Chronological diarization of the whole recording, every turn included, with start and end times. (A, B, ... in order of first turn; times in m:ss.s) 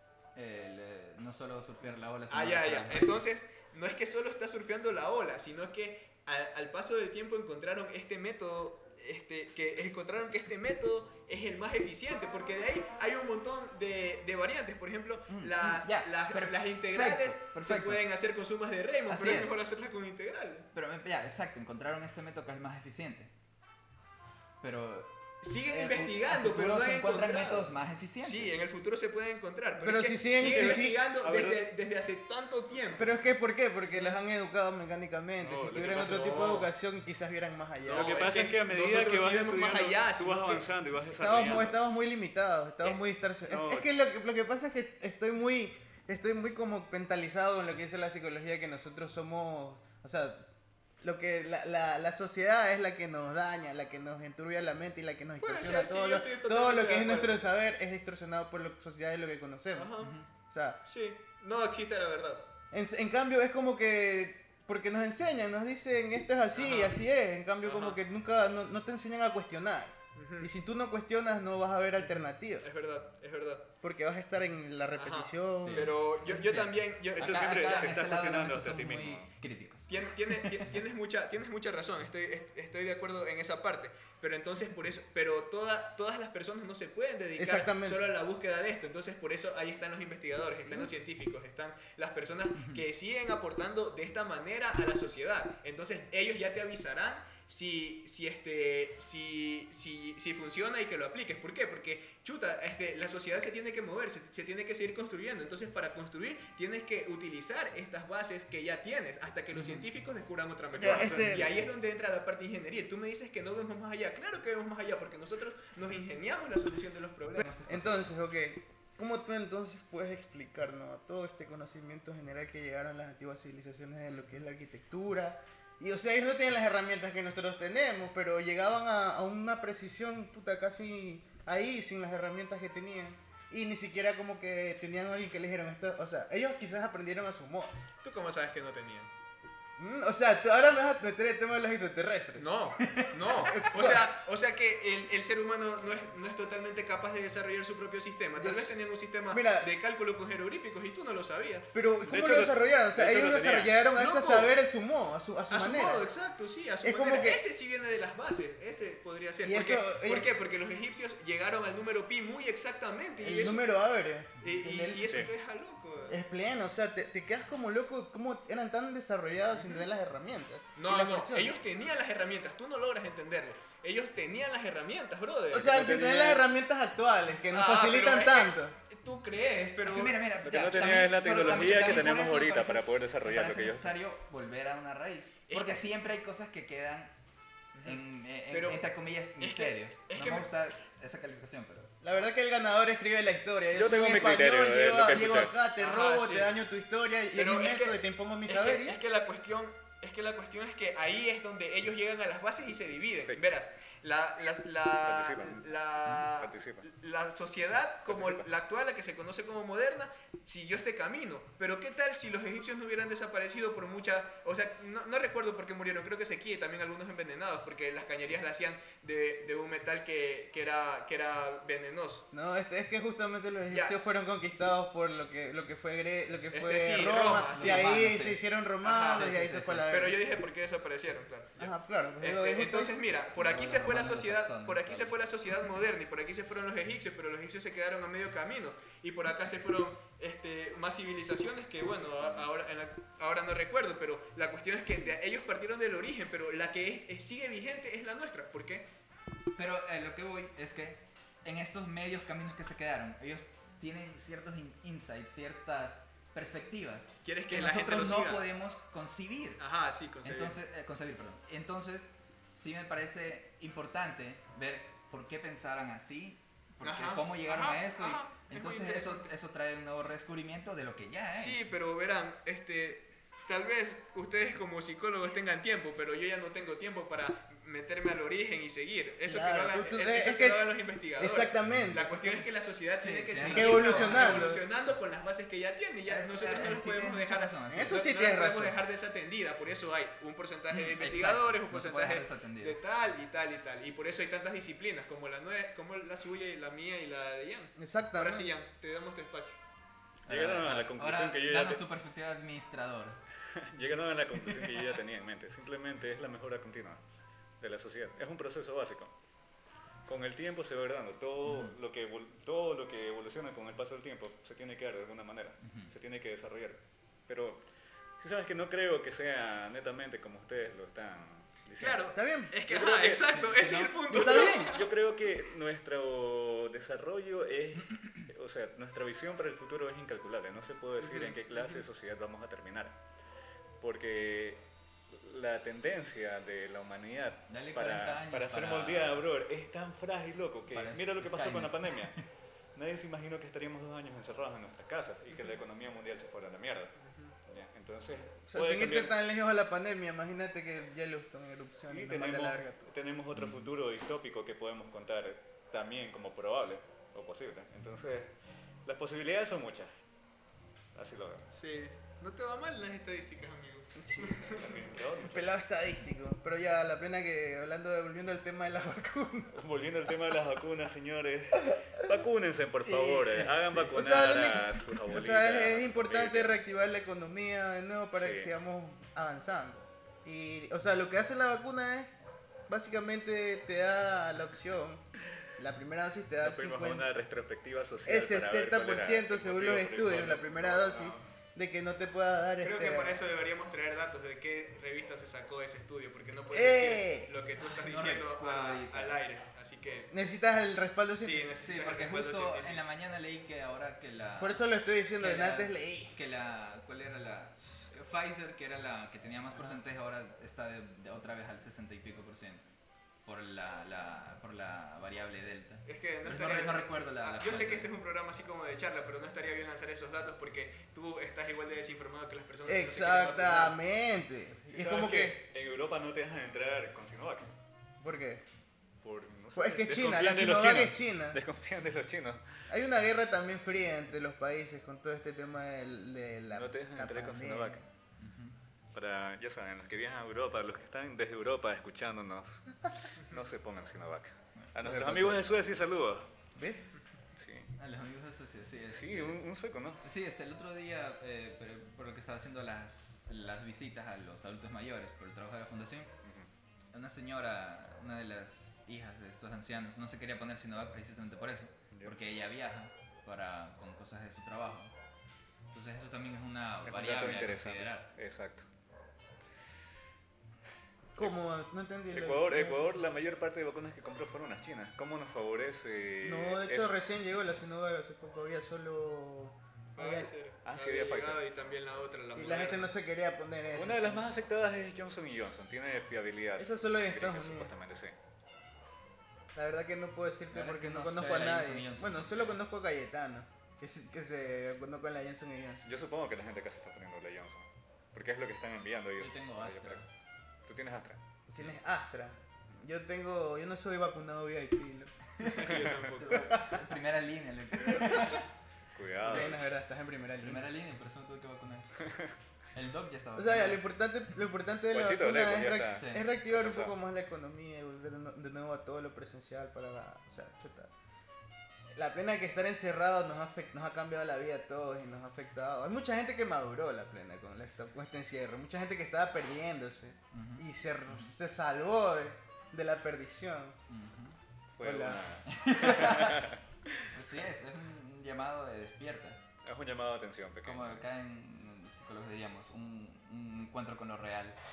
0:00.3-0:03.2 A
0:02.3-0:20.7 B
0:15.3-0:18.0 A
0:19.1-0:19.5 A
0:20.7-0:23.3 A
0:24.6-0:25.1 A
0:25.4-0:33.2 B
0:25.6-0:28.6 A
0:29.8-0:31.0 C
0:30.4-0:31.7 D
0:32.9-0:38.3 C
0:35.4-0:36.7 D
0:36.1-0:36.6 B
0:37.8-0:40.7 B
0:37.9-0:41.8 D
0:41.2-0:50.5 C
0:43.5-0:43.9 D
0:51.0-0:59.9 C
0:55.4-0:57.5 B
0:59.7-1:00.1 B
1:00.0-1:00.3 A
1:00.5-1:00.8 C
1:00.8-1:02.5 B
1:02.7-1:12.7 C
1:06.5-1:06.9 B
1:07.6-1:07.9 B
1:10.1-1:10.5 B
1:12.6-1:13.7 B
1:13.8-1:16.0 C
1:15.0-1:17.9 B
1:15.6-1:20.7 A
1:17.2-1:19.3 D
1:19.9-1:57.5 B
1:27.4-1:28.0 C
1:32.5-1:32.8 A
1:49.5-1:49.8 A
1:50.7-1:51.6 C
1:50.8-1:51.5 D
1:57.4-1:58.1 A
1:57.4-2:17.7 C
2:18.0-2:19.1 B
2:19.8-2:22.6 C
2:22.4-2:31.7 B
2:22.9-2:23.7 A
2:23.5-2:24.1 C
2:28.4-2:29.7 C
2:31.7-2:36.1 C
2:32.0-2:33.7 D
2:33.9-2:34.5 B
2:35.5-2:43.6 B
2:36.8-2:37.4 C
2:39.4-2:40.3 C
2:43.2-2:45.2 C
2:44.4-2:46.2 B
2:46.1-2:51.6 C
2:50.8-2:56.2 B
2:55.5-2:58.8 C
2:55.8-2:56.3 D
2:57.5-3:00.2 B
2:59.8-3:07.1 A
3:00.4-3:03.9 D
3:00.8-3:02.1 B
3:05.5-3:05.8 B
3:07.7-3:10.5 B
3:07.8-3:11.9 A
3:12.0-3:19.0 C
3:13.7-3:15.5 D
3:15.8-3:16.5 B
3:17.3-3:42.2 B
3:25.0-3:26.9 D
3:28.1-3:28.5 D
3:42.3-3:50.2 C
3:46.5-3:48.1 B
3:47.5-3:49.9 A
3:48.8-3:49.3 B
3:49.9-4:08.9 B
3:51.6-3:53.0 C
3:53.3-3:55.1 A
4:09.6-4:19.6 A
4:17.2-4:18.4 B
4:19.6-4:20.6 B
4:20.2-4:31.6 A
4:26.8-4:29.3 B
4:31.3-4:59.6 B
4:39.2-4:42.4 C
4:43.0-4:44.4 A
4:43.4-4:44.6 C
4:46.0-4:48.0 A
4:47.7-4:48.8 C
4:50.7-4:52.8 A
4:57.8-4:58.5 C
5:00.3-5:01.8 D
5:00.3-5:03.2 A
5:03.5-5:07.0 D
5:07.6-5:09.1 D
5:10.1-5:17.6 D
5:11.4-5:11.7 A
5:15.6-5:15.9 A
5:18.2-5:33.0 D
5:21.8-5:24.8 B
5:22.1-5:22.5 C
5:23.3-5:23.9 A
5:24.1-5:24.8 C
5:27.9-5:28.2 A
5:31.0-5:31.8 B
5:33.8-5:42.2 D
5:37.5-5:39.2 A
5:40.7-5:42.2 A
5:42.7-5:46.9 D
5:47.0-5:47.3 B
5:47.5-5:49.1 D
5:48.5-5:52.9 C
5:51.9-5:58.3 D
5:53.4-5:53.7 A
5:58.8-5:59.9 D
6:00.9-6:01.4 D
6:01.5-6:04.7 B
6:04.0-6:09.5 C
6:04.5-6:05.5 D
6:09.5-6:16.6 D
6:12.8-6:13.8 A
6:13.7-6:22.1 C
6:18.1-6:18.5 D
6:22.7-6:25.0 C
6:25.6-6:27.1 C
6:26.4-6:31.2 D
6:28.0-6:33.2 C
6:32.6-6:40.1 B
6:36.5-6:37.3 C
6:37.6-6:39.2 A
6:40.1-6:41.6 C
6:41.2-6:42.8 B
6:41.6-6:44.6 A
6:44.4-6:46.2 C
6:45.2-6:52.7 A
6:53.2-6:57.9 A
6:55.8-7:03.8 B
7:02.6-7:05.4 C
7:04.7-7:07.5 D
7:08.0-7:08.4 C
7:09.0-7:12.4 D
7:09.5-7:11.4 C
7:12.7-7:17.8 C
7:16.5-7:17.8 D
7:18.2-7:18.6 A
7:18.9-7:26.3 D
7:24.6-7:25.2 A
7:24.8-7:25.7 C
7:26.5-7:26.9 C
7:27.4-7:27.7 D
7:27.8-7:29.4 A
7:28.9-7:30.0 D
7:30.0-7:36.1 A
7:36.2-7:36.5 D
7:36.9-7:44.9 A
7:41.9-7:42.2 D
7:45.7-7:48.1 A
7:46.8-7:48.6 D
7:51.1-7:53.0 C
7:52.1-7:56.9 D
7:56.2-8:00.3 C
8:00.0-8:02.9 B
8:00.6-8:01.5 D
8:02.3-8:04.2 C
8:03.7-8:08.2 D
8:06.6-8:07.7 C
8:09.5-8:15.8 C
8:10.5-8:12.6 A
8:15.8-8:20.0 D
8:19.2-8:20.0 A
8:20.6-8:21.2 D
8:21.5-8:25.3 C
8:25.4-8:28.4 A
8:25.4-8:26.6 B
8:25.7-8:26.1 D
8:26.3-8:26.8 C
8:27.9-8:28.2 C
8:28.9-8:29.5 D
8:29.2-8:30.7 C
8:30.4-8:32.0 A
8:32.0-8:32.3 D
8:32.7-8:33.8 A
8:33.4-8:40.9 C
8:34.9-8:37.0 D
8:36.0-8:36.2 A
8:41.9-8:53.8 C
8:50.3-8:51.4 A
8:53.9-8:54.4 A
8:54.7-8:57.1 D
8:54.8-8:55.2 C
8:55.4-8:56.4 A
8:55.8-8:56.2 C
8:57.1-8:59.4 A
8:59.6-9:01.0 D
9:00.6-9:04.6 A